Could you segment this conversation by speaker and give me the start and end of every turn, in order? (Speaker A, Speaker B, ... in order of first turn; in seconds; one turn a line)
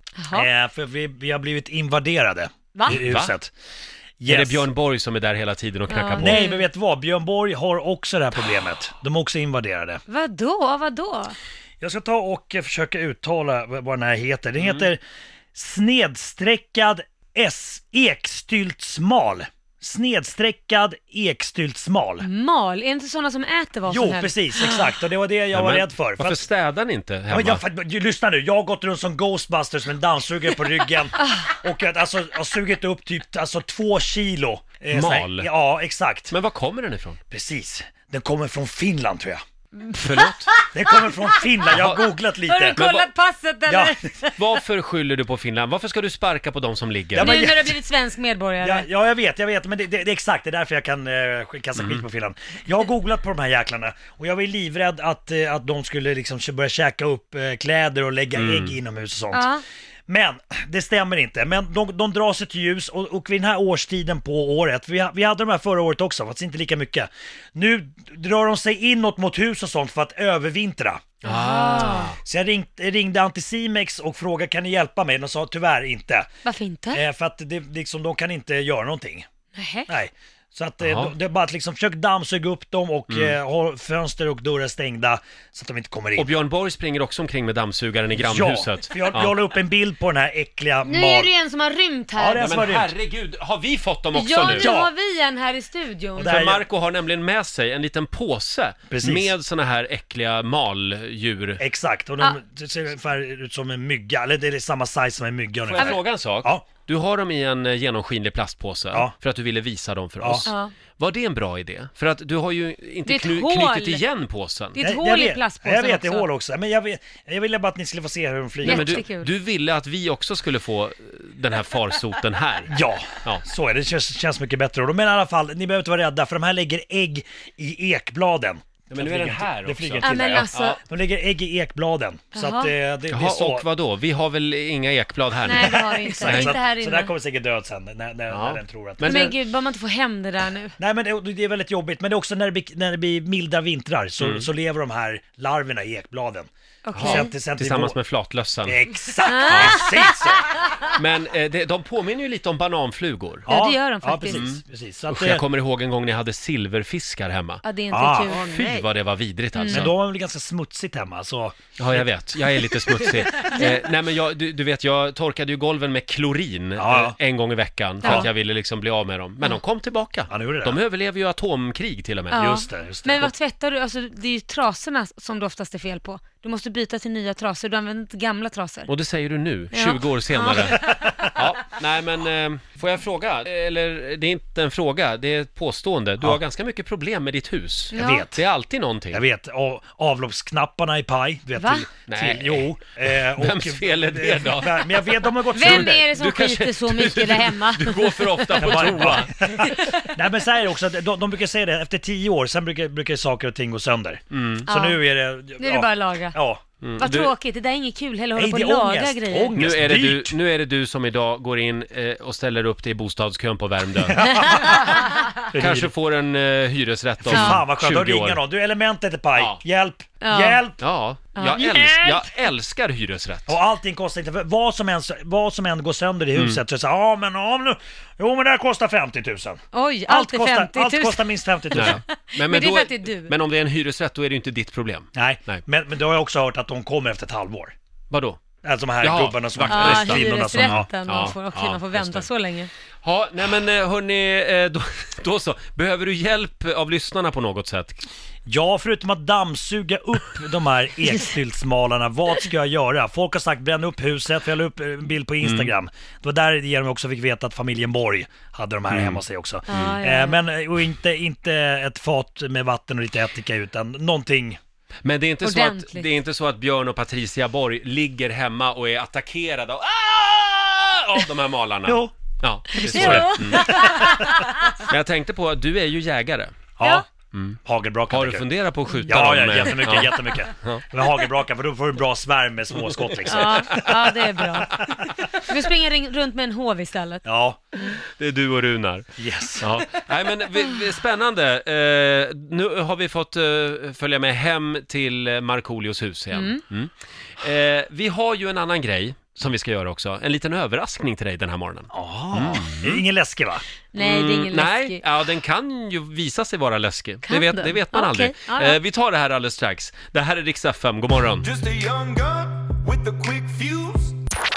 Speaker A: 0.2-0.5
Speaker B: 0.3-3.5
Speaker A: 2.7-3.0
Speaker C: 2.9-3.3
Speaker B: 4.2-4.7
Speaker C: 4.3-6.5
Speaker A: 5.9-6.7
Speaker B: 6.2-10.0
Speaker A: 10.1-11.3
Speaker B: 11.8-15.0
Speaker C: 14.6-14.9
Speaker B: 15.5-22.2
Speaker A: 22.2-24.9
Speaker B: 23.9-26.4
Speaker C: 25.5-27.6
Speaker B: 27.3-36.3
Speaker A: 31.2-31.5
Speaker C: 34.9-35.5
Speaker C: 36.3-37.2
Speaker B: 37.3-39.4
Speaker A: 39.8-44.6
Speaker C: 40.0-40.5
Speaker B: 40.7-42.8
Speaker C: 41.7-42.0
Speaker C: 42.7-43.1
Speaker B: 43.7-44.1
Speaker C: 44.3-47.4
Speaker B: 47.1-47.8
Speaker A: 47.1-48.9
Speaker B: 48.6-59.5
Speaker C: 51.8-52.0
Speaker C: 58.3-58.8
Speaker A: 59.3-59.6
Speaker B: 60.1-71.2
Speaker A: 71.2-72.1
Speaker C: 71.2-72.2
Speaker B: 72.2-76.3
Speaker A: 76.4-77.0
Speaker B: 76.9-79.2
Speaker A: 79.5-79.9
Speaker B: 79.9-86.3
Speaker C: 80.8-81.1
Speaker C: 83.1-83.3
Speaker C: 86.2-89.3
Speaker B: 88.2-91.3
Speaker A: 90.8-92.5
Speaker B: 92.2-92.9
Speaker C: 92.4-94.7
Speaker A: 94.1-96.4
Speaker B: 94.6-94.9
Speaker B: 96.2-96.6
Speaker C: 96.2-101.6
Speaker B: 98.9-99.3
Speaker B: 101.6-106.7
Speaker C: 105.7-114.8
Speaker B: 110.2-110.5
Speaker A: 110.5-110.7
Speaker A: 113.0-114.0
Speaker A: 114.7-116.3
Speaker B: 114.8-119.0
Speaker A: 118.6-119.3
Speaker C: 118.6-123.4
Speaker B: 122.7-133.7
Speaker C: 128.9-130.8
Speaker A: 130.0-130.8
Speaker A: 132.3-132.7
Speaker C: 133.1-136.5
Speaker A: 135.4-137.1
Speaker B: 135.5-139.3
Speaker C: 138.3-139.3
Speaker A: 139.0-140.8
Speaker B: 140.8-148.0
Speaker C: 144.2-144.5
Speaker A: 146.8-147.3
Speaker C: 146.9-148.8
Speaker B: 148.6-150.5
Speaker A: 149.2-150.7
Speaker C: 149.4-149.9
Speaker C: 150.9-153.5
Speaker A: 153.4-154.4
Speaker B: 153.5-155.4
Speaker C: 154.3-157.6
Speaker A: 157.6-158.8
Speaker B: 157.9-158.3
Speaker C: 158.3-159.9
Speaker A: 159.5-159.8
Speaker B: 159.7-162.1
Speaker C: 161.8-172.4
Speaker A: 162.9-163.8
Speaker B: 166.8-167.2
Speaker A: 168.0-168.3
Speaker B: 170.3-170.8
Speaker A: 172.3-178.9
Speaker B: 172.3-173.3
Speaker C: 178.9-189.2
Speaker A: 179.7-181.3
Speaker B: 180.6-181.2
Speaker A: 187.9-188.3
Speaker B: 187.9-188.4
Speaker B: 189.1-196.1
Speaker A: 191.6-191.9
Speaker C: 192.1-199.7
Speaker A: 195.5-200.1
Speaker B: 198.6-206.6
Speaker C: 204.3-204.7
Speaker A: 204.7-205.0
Speaker A: 205.6-206.4
Speaker C: 206.8-207.3
Speaker A: 207.0-209.5
Speaker B: 208.3-210.4
Speaker C: 209.5-214.2
Speaker B: 214.0-215.9
Speaker A: 214.2-215.3
Speaker C: 215.5-218.4
Speaker B: 217.2-220.8
Speaker A: 217.3-217.6
Speaker C: 219.3-219.6
Speaker A: 220.2-220.6
Speaker C: 220.8-223.6
Speaker A: 221.3-221.6
Speaker B: 221.5-222.2
Speaker B: 223.5-232.0
Speaker C: 226.3-226.6
Speaker A: 229.7-233.3
Speaker C: 231.7-235.6
Speaker B: 235.1-237.7
Speaker C: 238.1-238.4
Speaker B: 238.6-240.9
Speaker C: 239.0-242.3
Speaker A: 239.7-242.7
Speaker C: 243.0-248.1
Speaker B: 248.4-264.6
Speaker C: 255.4-255.7
Speaker C: 258.9-259.2
Speaker A: 259.7-260.4
Speaker C: 265.0-276.5
Speaker A: 265.4-266.1
Speaker B: 271.8-272.1
Speaker B: 272.7-274.4
Speaker A: 272.7-274.8
Speaker B: 276.8-277.0
Speaker C: 277.3-280.8
Speaker B: 277.6-278.5
Speaker B: 279.1-285.0
Speaker C: 283.3-283.9
Speaker A: 283.3-287.2
Speaker B: 287.2-287.6
Speaker C: 288.1-303.0
Speaker B: 289.2-289.7
Speaker A: 296.3-296.6
Speaker B: 301.9-303.6
Speaker A: 303.9-305.0
Speaker C: 304.0-311.5
Speaker A: 307.2-308.8
Speaker D: 311.4-314.2